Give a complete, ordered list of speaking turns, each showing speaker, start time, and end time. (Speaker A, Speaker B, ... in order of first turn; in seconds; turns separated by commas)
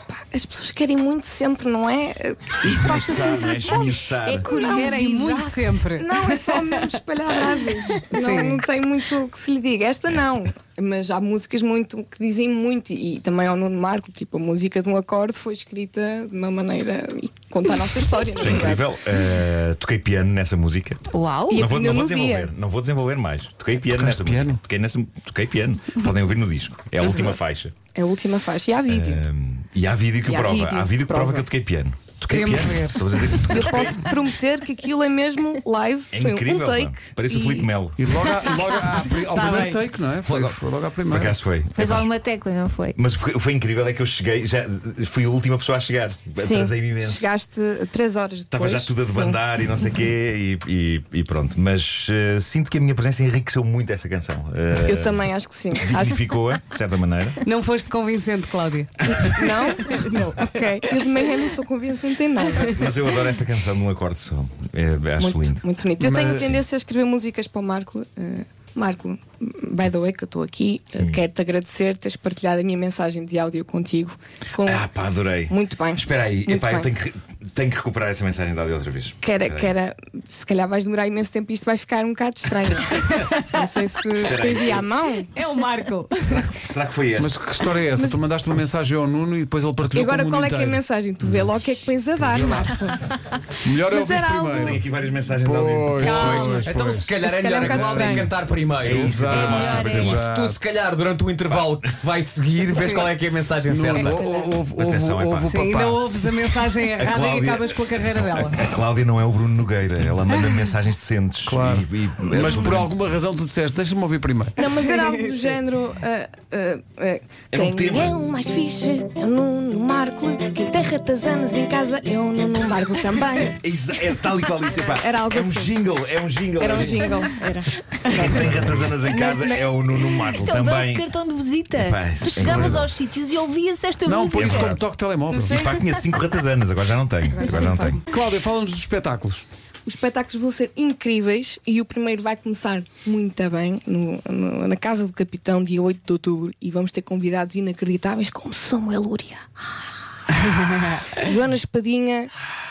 Speaker A: 0.1-18.9, Speaker B: 2.6-4.5, Speaker C: 3.2-5.7, Speaker D: 4.5-7.0, Speaker D: 8.1-8.6, Speaker B: 18.4-27.7, Speaker C: 21.1-21.6, Speaker A: 21.5-22.5, Speaker E: 23.9-24.6, Speaker A: 27.9-29.2, Speaker B: 28.9-34.1, Speaker D: 30.3-31.4, Speaker D: 32.3-33.1, Speaker A: 33.5-37.7, Speaker B: 36.1-38.0, Speaker E: 38.0-41.4, Speaker D: 38.6-39.8, Speaker B: 40.2-42.1, Speaker C: 41.7-43.0, Speaker B: 43.0-47.3, Speaker A: 46.4-49.4, Speaker B: 48.5-55.2, Speaker A: 54.8-56.2, Speaker B: 55.8-57.4, Speaker D: 57.4-61.0, Speaker A: 59.1-62.9, Speaker B: 62.6-65.6, Speaker A: 65.2-74.9, Speaker E: 66.0-66.5, Speaker B: 74.6-79.7, Speaker A: 75.5-76.9, Speaker A: 79.2-85.3, Speaker D: 82.9-83.4, Speaker B: 84.2-84.9, Speaker D: 85.3-86.5, Speaker B: 86.2-87.3, Speaker E: 87.2-90.8, Speaker A: 89.9-93.1, Speaker E: 92.2-92.8, Speaker E: 93.6-94.8, Speaker A: 93.8-94.8, Speaker B: 94.5-96.6, Speaker E: 95.4-97.1, Speaker D: 96.0-96.7, Speaker F: 96.6-99.3, Speaker A: 97.2-98.3, Speaker E: 97.6-98.2, Speaker B: 98.8-100.2, Speaker E: 98.8-100.6, Speaker C: 99.3-100.2, Speaker F: 99.9-104.3, Speaker B: 101.5-102.0, Speaker D: 102.7-103.1, Speaker E: 103.7-106.0, Speaker A: 104.0-104.6, Speaker B: 104.8-105.6, Speaker D: 105.4-108.6, Speaker B: 106.9-112.9, Speaker D: 110.3-110.7, Speaker E: 111.5-114.6, Speaker A: 114.6-123.6, Speaker B: 117.5-118.2, Speaker B: 123.6-127.2, Speaker A: 124.8-125.7, Speaker A: 126.6-129.7, Speaker D: 126.6-127.5, Speaker B: 128.1-131.1, Speaker C: 130.3-134.8, Speaker B: 131.7-132.9, Speaker E: 132.4-132.9, Speaker E: 134.0-135.6, Speaker B: 134.3-138.0, Speaker A: 137.3-138.0, Speaker E: 138.1-139.4, Speaker A: 139.8-149.5, Speaker D: 150.6-150.9, Speaker A: 151.0-152.3